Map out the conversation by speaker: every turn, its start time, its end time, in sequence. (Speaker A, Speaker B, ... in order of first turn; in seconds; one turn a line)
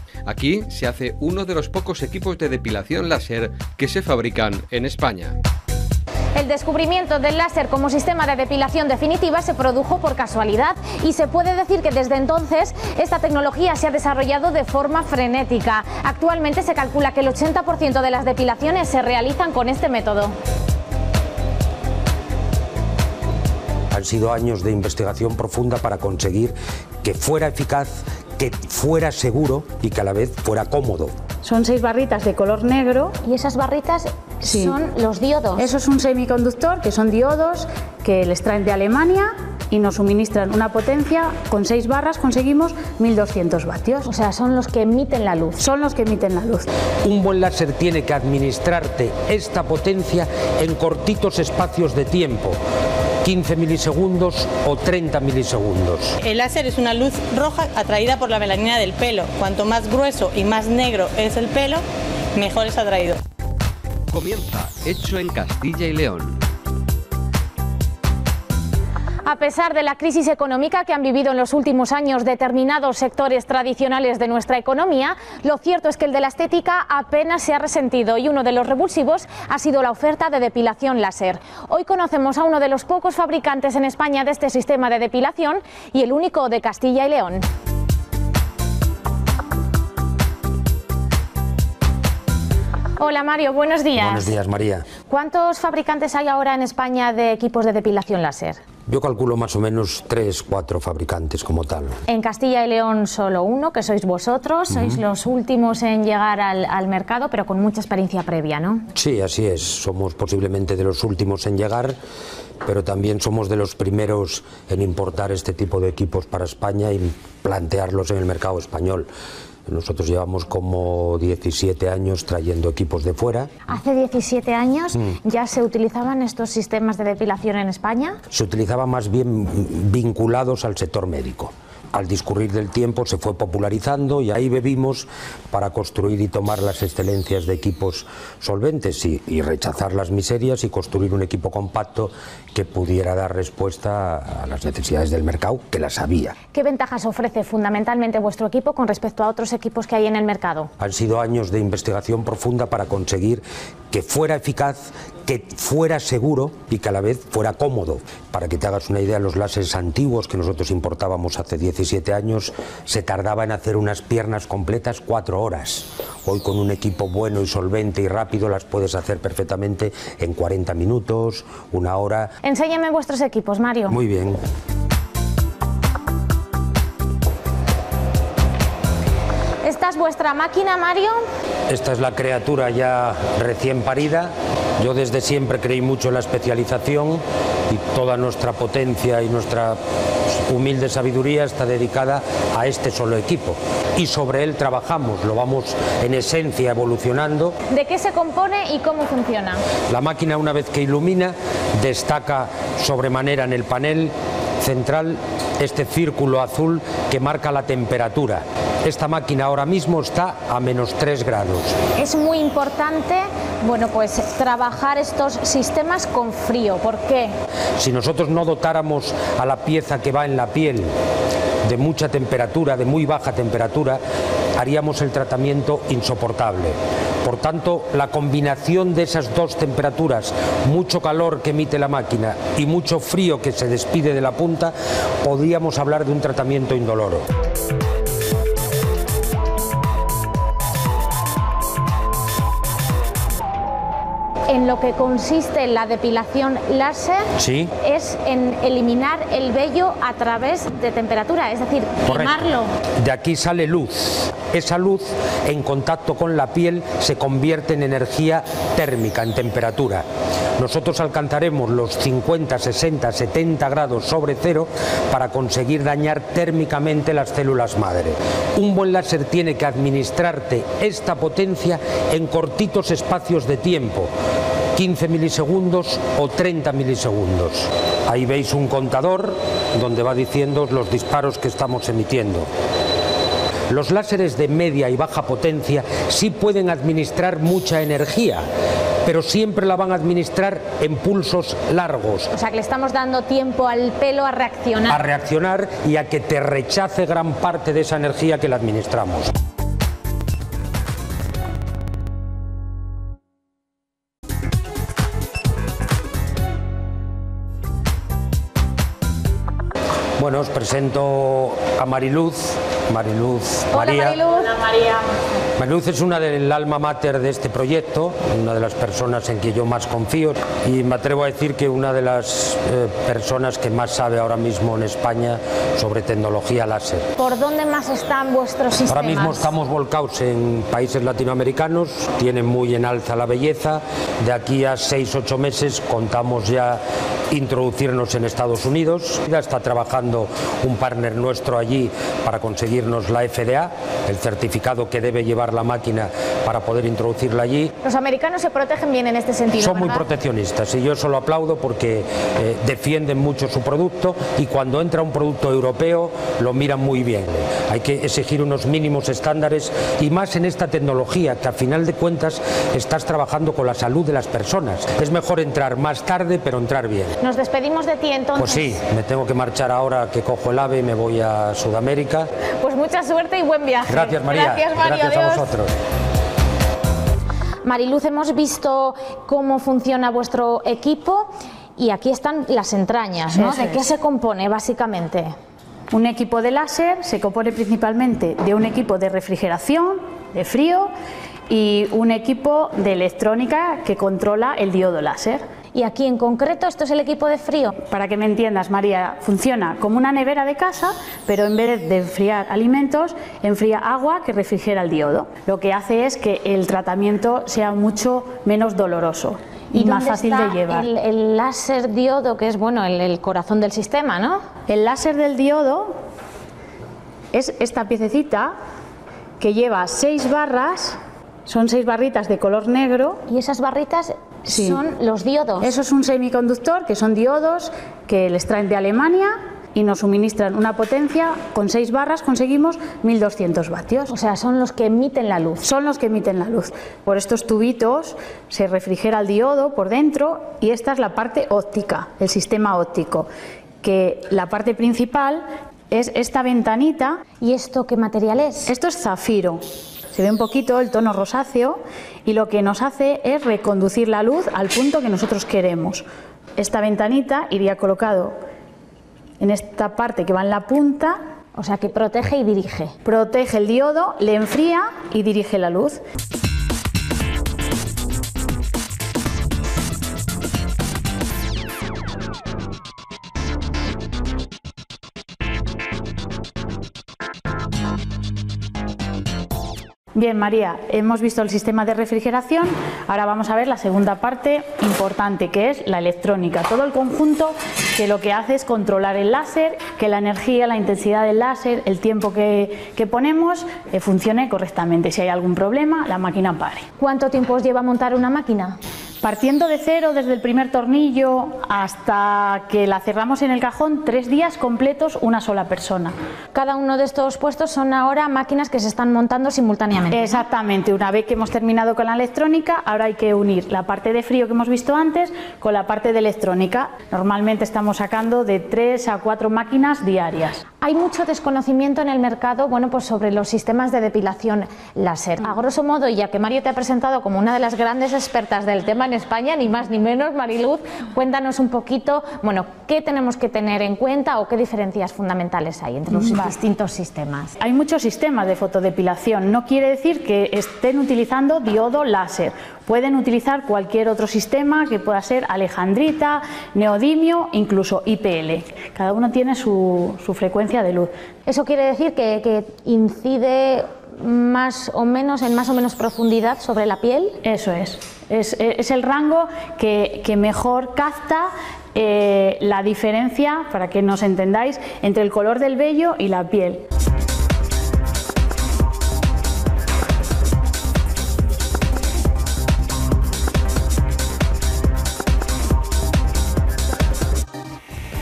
Speaker A: 0.2-5.3
Speaker B: 6.3-20.3
Speaker C: 23.9-31.1
Speaker D: 31.4-33.1
Speaker B: 33.2-35.7
Speaker D: 34.4-34.8
Speaker D: 35.6-44.1
Speaker B: 44.0-45.6
Speaker D: 45.6-46.7
Speaker C: 47.0-52.6
Speaker C: 53.2-56.1
Speaker E: 56.2-61.8
Speaker E: 62.3-63.2
Speaker A: 64.1-66.4
Speaker B: 69.2-87.4
Speaker B: 93.0-94.3
Speaker C: 94.0-94.9
Speaker B: 95.1-98.6
Speaker C: 98.9-102.0
Speaker B: 102.1-108.8
Speaker C: 104.7-105.0
Speaker C: 108.9-112.0
Speaker C: 112.6-119.1
Speaker C: 119.7-123.5
Speaker B: 123.7-128.2
Speaker C: 128.3-146.3
Speaker B: 146.5-150.7
Speaker C: 150.8-172.3
Speaker B: 172.4-174.0
Speaker C: 173.9-174.4
Speaker B: 179.6-181.2
Speaker C: 181.7-197.6
Speaker B: 197.7-199.6
Speaker C: 199.9-211.8
Speaker B: 211.9-217.3
Speaker C: 217.8-220.9
Speaker C: 221.6-224.0
Speaker C: 224.6-237.2
Speaker B: 244.5-252.7
Speaker C: 247.4-247.7
Speaker C: 252.1-260.0
Speaker C: 260.6-274.1
Speaker C: 274.7-282.5
Speaker C: 283.7-288.4
Speaker C: 289.0-292.3
Speaker B: 292.3-295.0
Speaker C: 294.9-299.3
Speaker C: 310.2-314.2
Speaker B: 313.7-314.6
Speaker C: 315.6-327.1
Speaker B: 327.2-329.5
Speaker C: 328.9-347.7
Speaker B: 347.8-350.0
Speaker C: 349.6-367.1
Speaker B: 367.2-368.8
Speaker C: 368.4-372.3
Speaker B: 372.6-375.5
Speaker C: 373.9-375.7
Speaker B: 377.6-385.3
Speaker D: 383.3-383.9
Speaker D: 385.9-390.9
Speaker D: 391.5-395.4
Speaker B: 395.7-397.8
Speaker D: 397.9-410.9
Speaker B: 409.7-414.4
Speaker D: 414.7-415.9
Speaker D: 417.3-418.5
Speaker D: 419.4-423.2
Speaker B: 423.3-425.7
Speaker D: 424.5-424.8
Speaker D: 425.6-434.1
Speaker B: 434.1-435.7
Speaker D: 435.6-443.3
Speaker D: 443.8-447.2
Speaker B: 447.4-448.7
Speaker D: 448.7-449.6
Speaker D: 450.1-456.0
Speaker D: 456.6-458.3
Speaker D: 459.4-461.2
Speaker B: 461.5-462.9
Speaker D: 463.0-466.0
Speaker D: 480.1-496.8
Speaker B: 497.0-498.8
Speaker D: 499.2-506.1
Speaker B: 506.5-510.4
Speaker D: 510.1-520.6
Speaker B: 520.8-537.5
Speaker D: 537.6-551.1
Speaker B: 551.5-557.4
Speaker D: 557.4-566.8